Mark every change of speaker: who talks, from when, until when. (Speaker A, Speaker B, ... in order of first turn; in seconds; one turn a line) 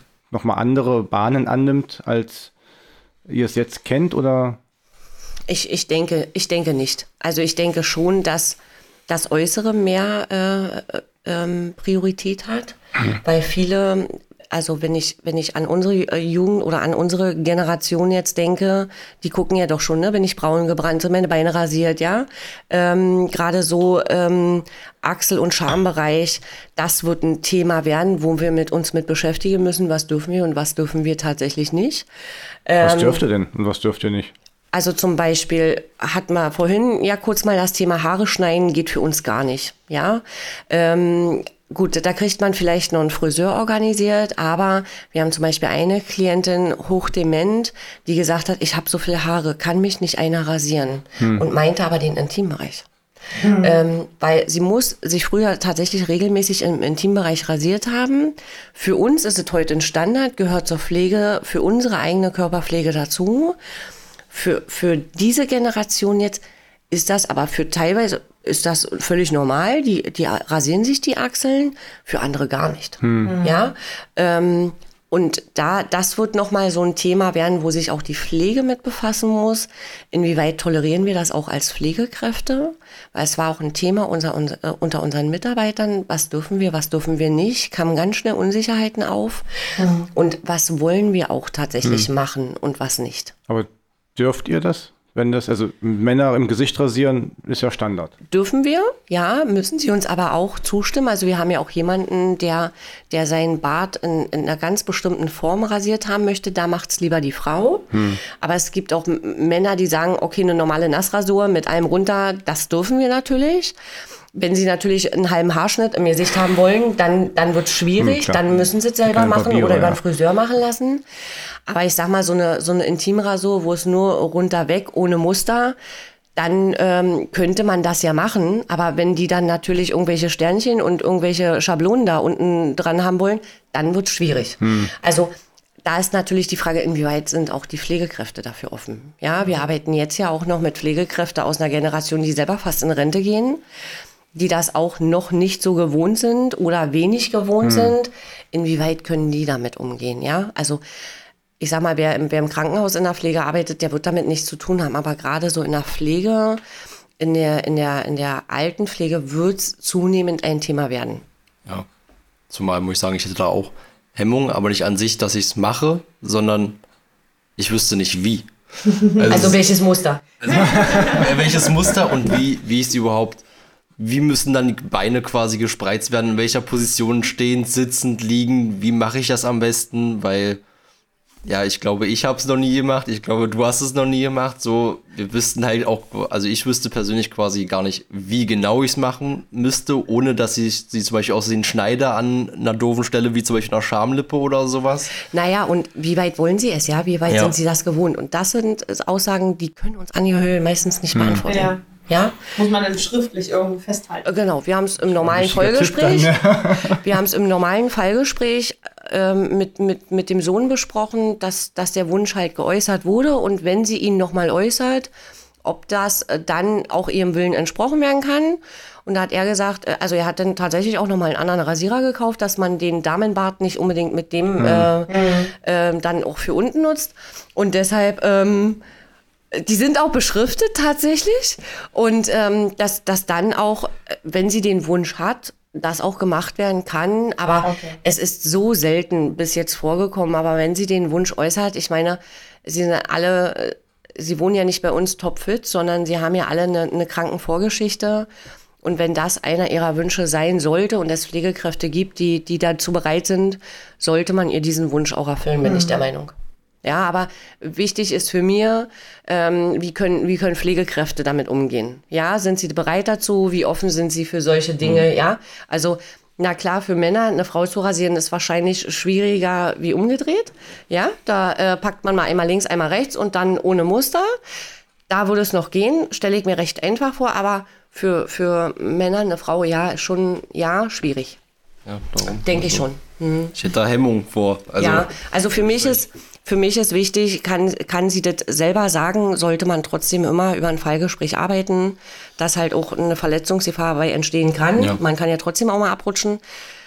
Speaker A: 0.3-2.5
Speaker A: 3.3-4.6
Speaker B: 5.5-32.1
Speaker B: 32.7-33.2
Speaker A: 32.8-34.3
Speaker B: 34.7-52.9
Speaker A: 51.2-51.5
Speaker C: 53.4-53.8
Speaker B: 53.5-63.6
Speaker B: 64.3-89.5
Speaker A: 73.0-73.4
Speaker C: 73.2-73.6
Speaker C: 89.8-90.1
Speaker B: 90.1-93.3
Speaker A: 91.8-92.1
Speaker A: 93.5-98.1
Speaker B: 98.3-113.8
Speaker A: 107.9-108.2
Speaker B: 114.3-121.0
Speaker A: 118.0-118.4
Speaker A: 119.1-120.0
Speaker B: 121.7-125.8
Speaker B: 126.4-135.3
Speaker A: 134.6-134.9
Speaker B: 135.8-143.6
Speaker B: 144.3-150.8
Speaker A: 147.6-147.9
Speaker B: 151.6-156.6
Speaker B: 157.2-161.2
Speaker D: 162.5-166.8
Speaker D: 167.6-168.5
Speaker C: 169.0-169.5
Speaker D: 169.0-169.6
Speaker B: 169.3-170.2
Speaker D: 170.4-173.4
Speaker C: 170.5-171.6
Speaker A: 170.7-171.3
Speaker D: 174.0-180.6
Speaker D: 181.4-195.2
Speaker B: 195.2-202.4
Speaker D: 197.3-197.5
Speaker A: 201.1-201.4
Speaker C: 201.5-201.8
Speaker C: 202.5-204.3
Speaker B: 204.2-215.1
Speaker A: 205.2-207.1
Speaker B: 215.6-228.8
Speaker A: 224.6-224.9
Speaker C: 225.1-225.5
Speaker B: 229.5-248.3
Speaker C: 237.6-238.0
Speaker B: 248.8-274.3
Speaker C: 255.6-256.0
Speaker B: 275.1-281.4
Speaker D: 281.9-282.9
Speaker B: 282.2-283.6
Speaker D: 283.6-285.9
Speaker B: 284.8-296.4